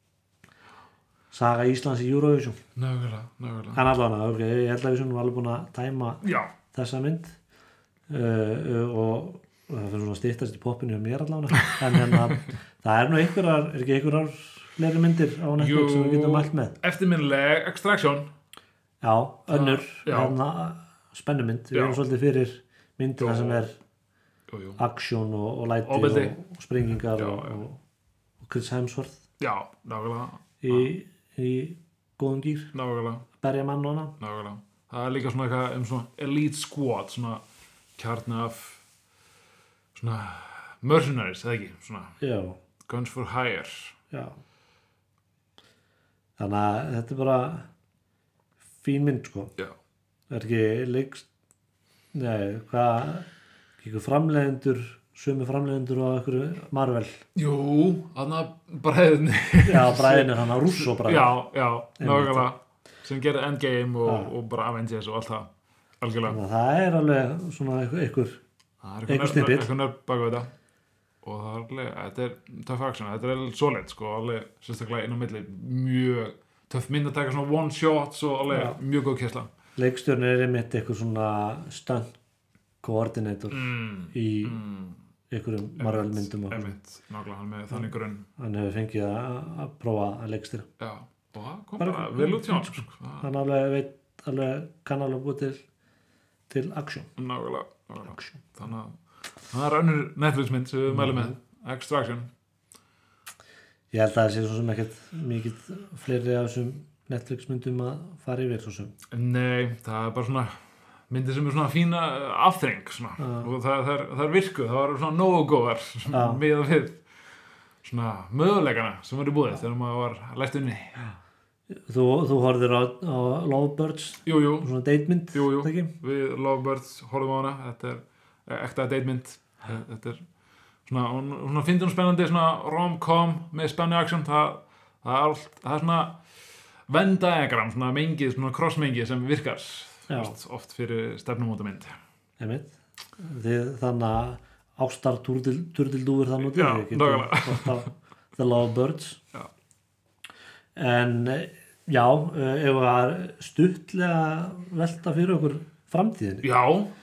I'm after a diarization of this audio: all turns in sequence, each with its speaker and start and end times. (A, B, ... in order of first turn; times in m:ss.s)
0:01.3-0:02.6 A
0:02.8-0:03.8 B
0:03.7-0:07.4 A
0:06.2-0:06.5 B
0:08.1-0:16.7 A
0:11.7-0:12.3 B
0:15.6-0:18.3 B
0:19.0-0:23.8 A
0:19.5-0:20.4 B
0:21.7-0:22.0 B
0:23.2-0:23.6 B
0:24.5-0:24.8 B
0:24.8-0:27.8 A
0:25.8-0:26.4 B
0:27.1-0:27.6 B
0:28.4-0:29.2 A
0:29.4-0:30.9 B
0:30.6-0:32.7 A
0:32.7-0:33.3 B
0:33.4-0:34.1 A
0:34.2-0:37.4 B
0:38.0-0:38.8 B
0:39.9-0:42.2 B
0:42.2-0:42.6 A
0:42.9-0:44.0 B
0:44.1-0:44.4 A
0:46.4-0:47.7 A
0:48.8-0:49.5 A
0:50.3-0:51.3 A
0:52.1-0:53.3 A
0:53.8-0:57.2 A
0:57.4-1:05.5 B
0:59.6-1:01.4 A
1:02.0-1:02.5 A
1:04.0-1:04.3 A
1:06.0-1:06.4 B
1:06.3-1:08.4 A
1:08.8-1:10.5 B
1:09.1-1:09.7 A
1:11.2-1:19.5 B
1:18.5-1:18.8 A
1:19.8-1:22.1 A
1:22.8-1:24.6 A
1:23.5-1:25.0 B
1:25.3-1:26.8 A
1:25.8-1:28.3 B
1:27.7-1:30.7 A
1:30.8-1:33.3 B
1:31.8-1:35.6 A
1:36.5-1:37.1 A
1:37.2-1:39.0 B
1:38.2-1:38.4 A
1:39.5-1:42.3 B
1:40.9-1:41.4 A
1:43.9-1:48.9 A
1:49.1-1:57.0 B
1:53.2-1:53.5 A
1:56.1-1:56.4 A
1:57.8-2:01.1 B
2:01.8-2:05.9 A
2:04.3-2:04.7 B
2:05.3-2:10.2 B
2:10.9-2:16.2 B
2:16.9-2:22.0 B
2:20.1-2:20.4 A
2:22.4-2:29.2 A
2:26.4-2:27.9 B
2:30.8-2:36.5 A
2:36.4-2:36.9 B